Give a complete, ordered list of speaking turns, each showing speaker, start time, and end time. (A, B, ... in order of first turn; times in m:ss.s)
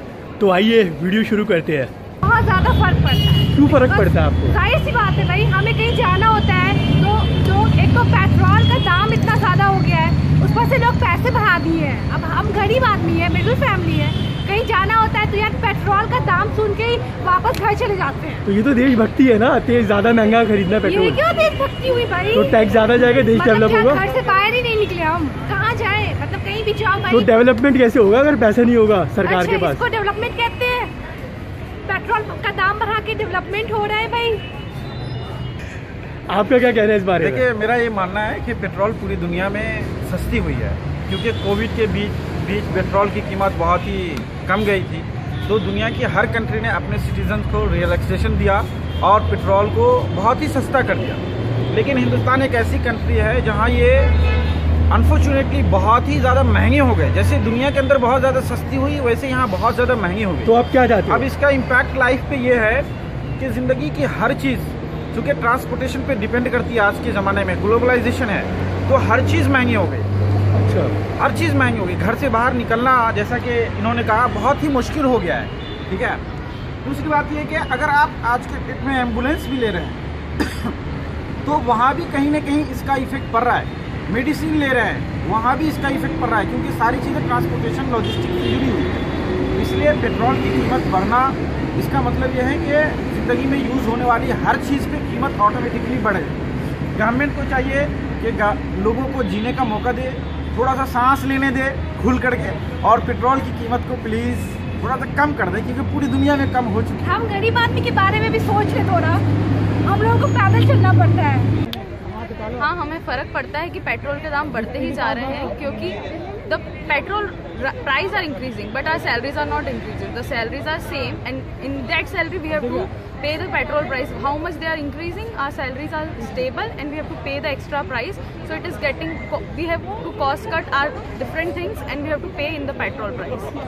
0:00.4-0:01.9 A
0:02.2-0:18.4 B
0:03.5-0:04.6 A
0:18.4-0:21.2 A
0:20.8-0:27.3 B
0:22.3-0:24.0 A
0:27.1-0:29.8 A
0:29.2-0:30.9 B
0:31.8-0:34.4 B
0:36.3-0:37.4 A
0:37.2-0:51.2 C
0:51.7-0:54.1 C
0:54.9-1:00.5 C
1:00.4-1:01.3 A
1:01.1-1:02.8 C
1:03.4-1:10.1 C
1:10.6-1:10.9 A
1:11.2-1:16.2 C
1:16.8-1:20.7 C
1:21.4-1:36.3 C
1:37.0-1:47.2 C
1:47.0-1:49.2 B
1:49.8-1:51.5 B
1:52.6-2:13.5 D